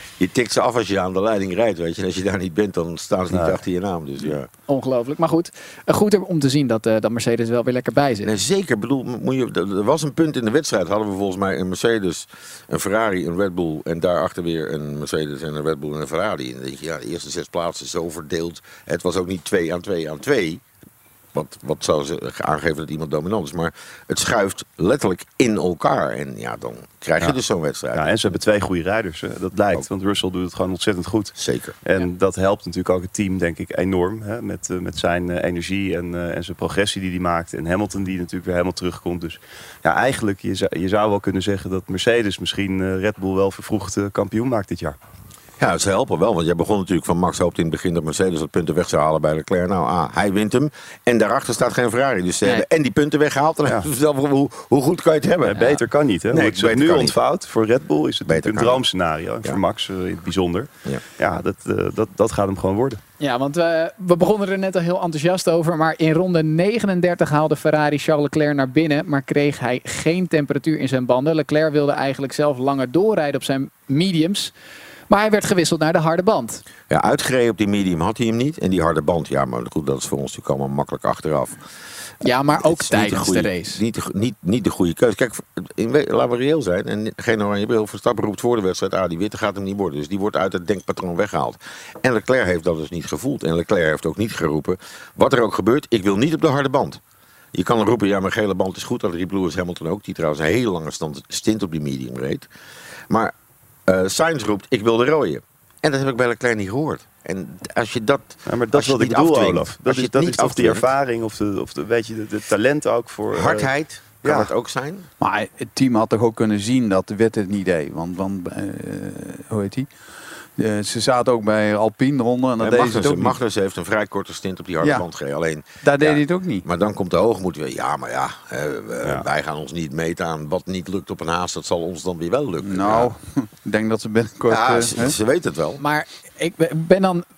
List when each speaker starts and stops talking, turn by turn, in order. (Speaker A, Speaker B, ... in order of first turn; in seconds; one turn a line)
Speaker A: 0.2-4.5
Speaker B: 3.3-3.6
Speaker C: 4.7-8.3
Speaker A: 8.2-20.6
Speaker A: 21.3-28.2
Speaker B: 27.9-45.0
Speaker A: 31.4-31.8
Speaker A: 45.6-55.8
Speaker B: 55.4-63.0
Speaker A: 56.3-57.2
Speaker A: 58.3-58.8
Speaker C: 63.2-74.5
Speaker C: 75.1-76.6
Speaker A: 76.9-81.6
Speaker C: 82.2-83.8
Speaker A: 82.5-97.0
Speaker A: 97.5-102.5
Speaker A: 103.9-110.9
Speaker B: 108.5-113.7
Speaker A: 113.3-115.1
Speaker B: 114.2-114.5
Speaker D: 115.2-119.9
Speaker D: 120.6-123.4
Speaker A: 122.6-133.1
Speaker D: 125.8-126.7
Speaker D: 132.7-135.2
Speaker A: 134.5-135.8
Speaker C: 135.8-137.2